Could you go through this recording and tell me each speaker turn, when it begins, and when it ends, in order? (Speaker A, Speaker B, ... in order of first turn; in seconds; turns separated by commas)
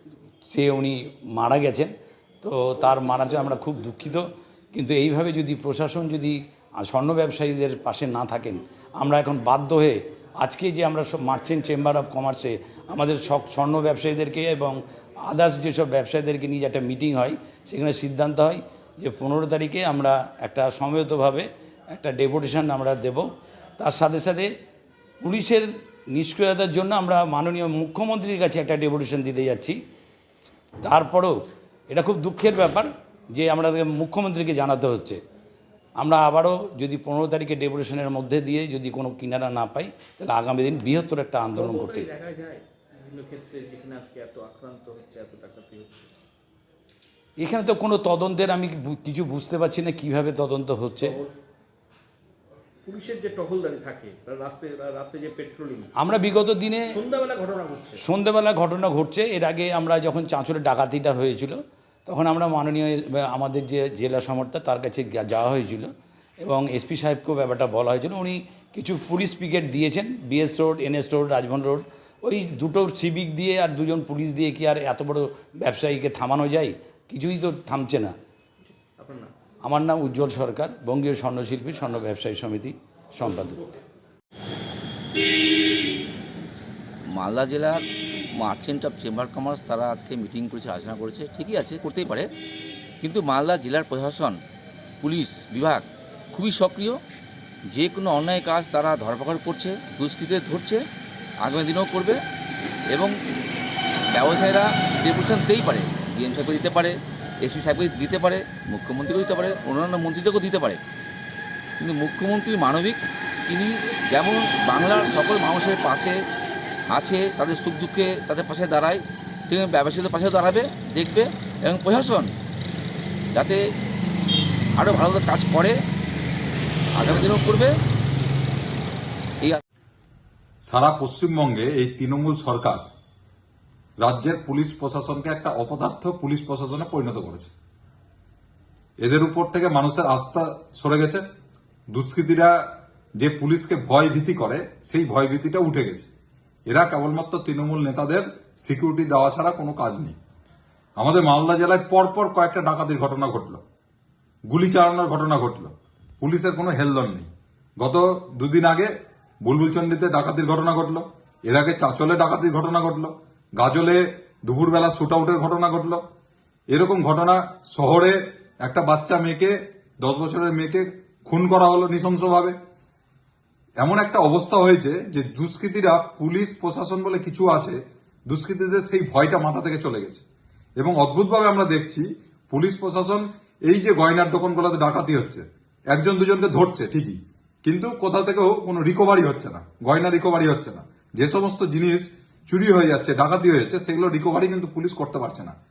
Speaker A: 0.5-24.5, Speaker A: 25.2-29.8, Speaker A: 30.8-31.3, Speaker A: 31.9-35.2, Speaker A: 36.0-42.1, Speaker B: 41.6-46.1, Speaker A: 47.4-51.2, Speaker B: 52.8-55.9, Speaker A: 56.0-56.9, Speaker B: 56.9-58.0, Speaker A: 58.0-65.9, Speaker A: 66.4-78.1, Speaker B: 78.7-79.3, Speaker A: 79.6-83.6, Speaker C: 87.1-87.8, Speaker C: 88.4-92.3, Speaker C: 93.0-94.4, Speaker C: 95.0-97.0, Speaker C: 97.7-100.8, Speaker C: 101.4-102.2, Speaker C: 104.1-110.8, Speaker C: 111.8-116.2, Speaker C: 116.9-122.3, Speaker C: 124.8-125.8, Speaker C: 127.0-127.7, Speaker D: 130.7-132.8, Speaker D: 134.0-137.5, Speaker D: 139.0-141.2, Speaker D: 141.9-142.5, Speaker D: 143.2-146.1, Speaker D: 146.7-150.2, Speaker D: 151.0-153.6, Speaker D: 154.5-157.3, Speaker D: 157.8-158.9, Speaker D: 159.4-166.0, Speaker D: 166.7-172.5, Speaker D: 173.8-177.8, Speaker D: 178.3-180.2, Speaker D: 180.8-195.5